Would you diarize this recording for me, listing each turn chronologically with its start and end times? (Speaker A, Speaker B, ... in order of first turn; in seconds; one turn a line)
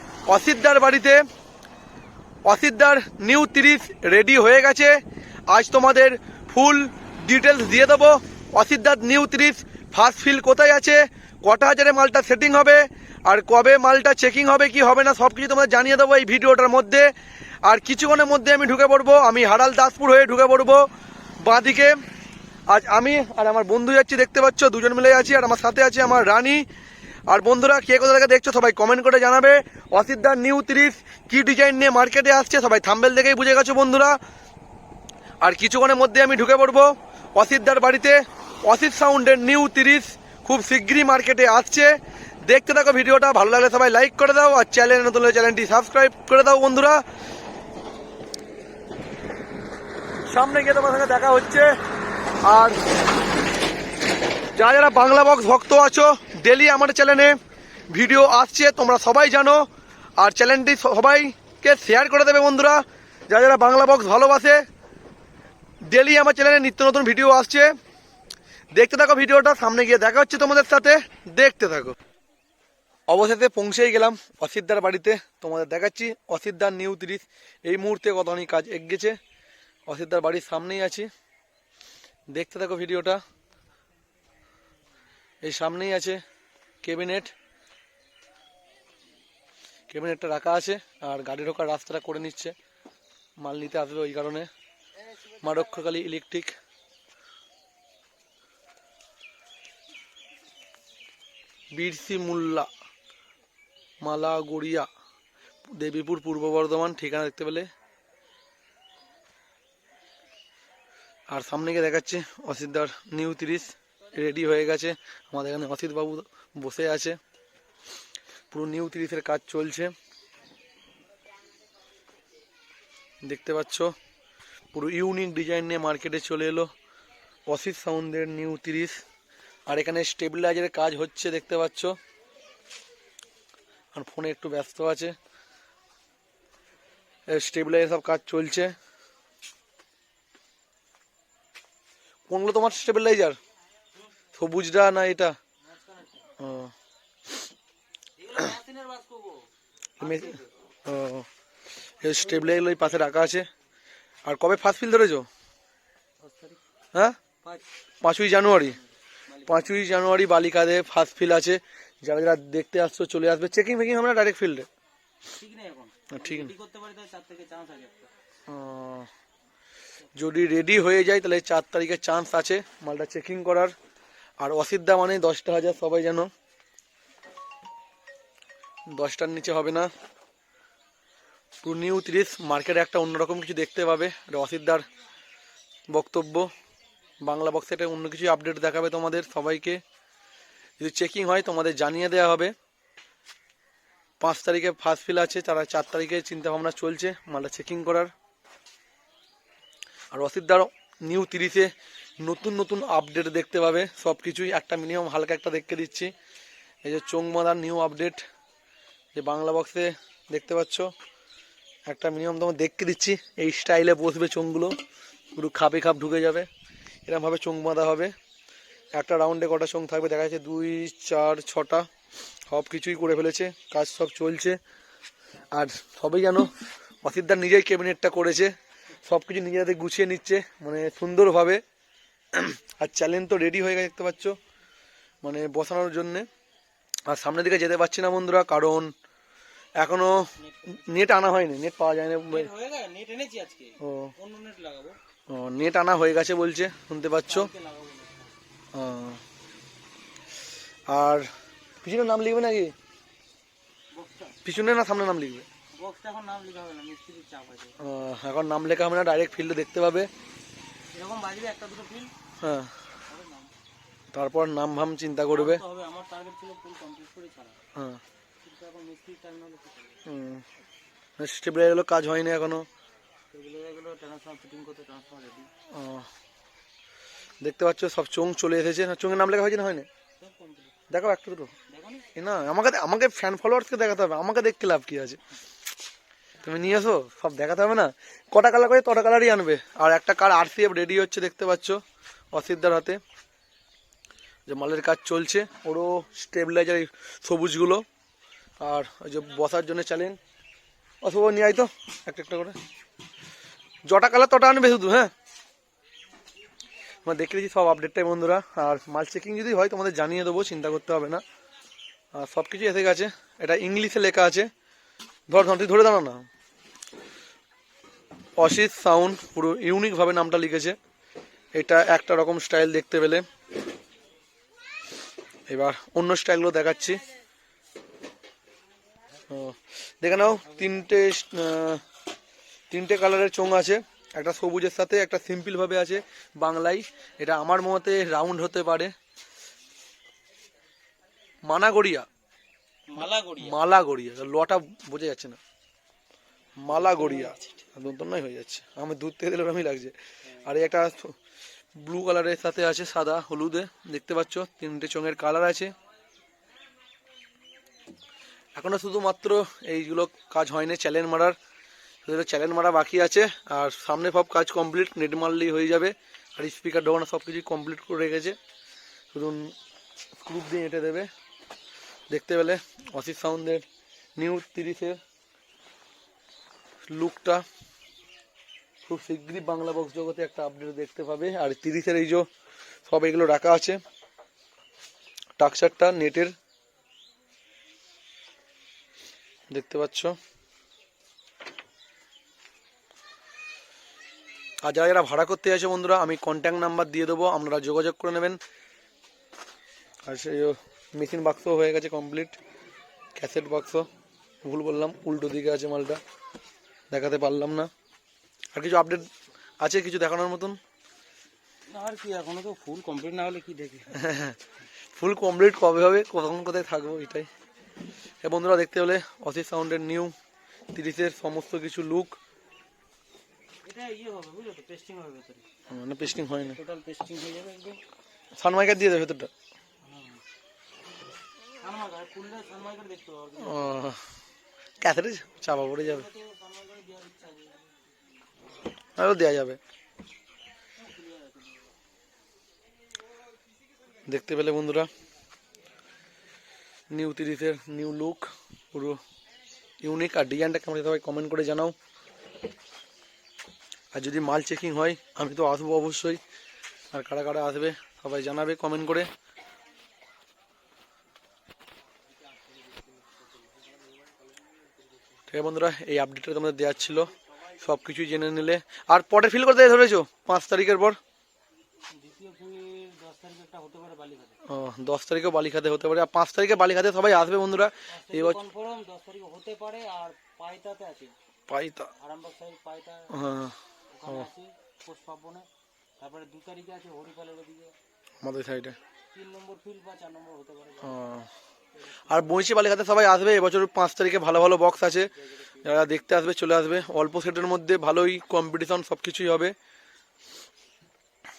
Speaker A: 0.3-1.2
Speaker A: 2.4-5.0
Speaker A: 5.5-17.1
Speaker A: 17.6-20.9
Speaker A: 21.4-22.0
Speaker A: 22.7-26.6
Speaker A: 27.3-34.2
Speaker A: 35.4-47.0
Speaker A: 50.3-51.7
Speaker A: 52.4-52.8
Speaker A: 54.5-57.4
Speaker A: 57.9-59.6
Speaker A: 60.2-64.6
Speaker A: 65.8-67.7
Speaker A: 68.7-72.0
Speaker A: 73.1-79.2
Speaker A: 79.9-81.1
Speaker A: 82.3-83.2
Speaker A: 85.4-86.2
Speaker A: 86.8-87.3
Speaker A: 89.9-92.5
Speaker A: 93.4-94.5
Speaker A: 95.4-96.5
Speaker A: 101.7-102.7
Speaker A: 104.0-104.9
Speaker A: 105.7-107.7
Speaker A: 111.3-117.2
Speaker A: 118.5-119.9
Speaker A: 123.2-123.9
Speaker A: 124.7-126.7
Speaker A: 127.5-129.0
Speaker A: 129.7-132.0
Speaker A: 133.9-135.2
Speaker A: 137.3-138.7
Speaker A: 142.3-143.4
Speaker A: 144.3-145.3
Speaker B: 145.6-146.3
Speaker A: 146.4-146.7
Speaker B: 148.2-149.5
Speaker B: 150.0-150.5
Speaker A: 150.0-151.3
Speaker A: 152.0-153.5
Speaker B: 152.3-152.7
Speaker A: 154.2-155.3
Speaker B: 156.2-156.6
Speaker A: 158.0-158.8
Speaker B: 158.7-159.8
Speaker A: 159.5-164.7
Speaker B: 165.3-168.1
Speaker A: 166.1-166.5
Speaker A: 168.5-169.1
Speaker A: 170.2-173.7
Speaker A: 174.4-176.3
Speaker A: 178.9-179.9
Speaker A: 181.6-184.8
Speaker A: 185.9-186.5
Speaker A: 187.2-189.8
Speaker A: 190.8-192.5
Speaker A: 194.2-198.1
Speaker A: 200.1-206.1
Speaker A: 206.8-208.2
Speaker A: 209.1-210.9
Speaker A: 211.9-214.8
Speaker A: 215.3-216.5
Speaker A: 217.1-218.1
Speaker A: 218.9-221.9
Speaker A: 222.5-224.6
Speaker A: 225.5-226.5
Speaker A: 227.0-231.6
Speaker A: 232.3-234.3
Speaker A: 235.2-236.3
Speaker A: 237.1-238.9
Speaker A: 239.8-242.5
Speaker B: 240.4-241.1
Speaker B: 242.3-245.0
Speaker A: 243.8-244.1
Speaker A: 245.3-247.5
Speaker B: 247.2-248.3
Speaker A: 248.7-249.2
Speaker A: 250.9-251.3
Speaker A: 251.8-252.7
Speaker B: 253.9-254.4
Speaker A: 254.4-255.5
Speaker B: 255.7-257.8
Speaker A: 257.8-260.1
Speaker B: 260.9-262.1
Speaker A: 262.4-262.8
Speaker B: 263.1-263.5
Speaker A: 264.1-265.6
Speaker B: 265.3-267.6
Speaker A: 267.7-268.0
Speaker B: 268.4-270.0
Speaker A: 270.1-270.4
Speaker A: 271.2-272.7
Speaker B: 273.3-275.5
Speaker A: 275.7-276.1
Speaker A: 277.4-279.9
Speaker B: 280.2-280.7
Speaker A: 280.9-281.5
Speaker B: 281.7-282.1
Speaker A: 282.1-285.2
Speaker A: 286.4-291.8
Speaker A: 292.3-293.0
Speaker A: 294.5-297.8
Speaker A: 298.6-300.2
Speaker A: 301.0-302.6
Speaker A: 303.9-305.1
Speaker A: 307.0-311.2
Speaker A: 312.1-314.5
Speaker A: 315.3-316.3
Speaker A: 318.4-320.8
Speaker A: 321.5-323.2
Speaker A: 325.5-327.0
Speaker A: 329.3-331.8
Speaker A: 332.7-338.9
Speaker A: 341.4-342.1
Speaker B: 342.9-343.6
Speaker A: 343.4-345.4
Speaker A: 346.6-351.1
Speaker B: 346.7-347.6
Speaker A: 351.8-355.7
Speaker A: 358.6-361.4
Speaker A: 362.0-368.4
Speaker A: 369.1-369.5
Speaker A: 370.2-371.1
Speaker A: 372.1-373.6
Speaker A: 374.2-375.0
Speaker A: 376.9-377.4
Speaker A: 378.9-382.3
Speaker A: 382.9-383.8
Speaker A: 385.4-386.3
Speaker A: 389.5-390.1
Speaker A: 394.6-398.4
Speaker A: 400.1-402.4
Speaker A: 403.1-403.9
Speaker A: 404.4-406.0
Speaker A: 406.9-407.7
Speaker A: 408.5-409.1
Speaker A: 409.6-410.6
Speaker B: 411.7-414.0
Speaker A: 413.9-414.4
Speaker A: 414.9-417.3
Speaker A: 418.2-420.1
Speaker A: 420.7-422.2
Speaker B: 423.6-425.4
Speaker A: 425.7-426.6
Speaker B: 426.5-427.8
Speaker A: 428.4-429.3
Speaker B: 429.8-430.2
Speaker B: 431.6-433.8
Speaker A: 433.4-434.0
Speaker A: 434.8-436.1
Speaker B: 435.7-437.8
Speaker A: 439.0-439.6
Speaker B: 440.8-441.7
Speaker A: 444.1-444.9
Speaker A: 446.9-449.0
Speaker A: 449.8-451.7
Speaker A: 453.9-456.2
Speaker A: 456.9-459.1
Speaker B: 462.1-464.4
Speaker A: 465.3-471.0
Speaker B: 471.9-474.4
Speaker A: 474.4-478.4
Speaker B: 477.9-481.1
Speaker A: 481.5-481.9
Speaker B: 482.0-483.1
Speaker A: 483.1-483.6
Speaker B: 483.9-485.5
Speaker B: 486.0-487.7
Speaker A: 488.2-488.8
Speaker B: 489.1-491.1
Speaker A: 490.8-491.3
Speaker A: 492.1-495.1
Speaker B: 495.1-495.7
Speaker A: 495.6-499.5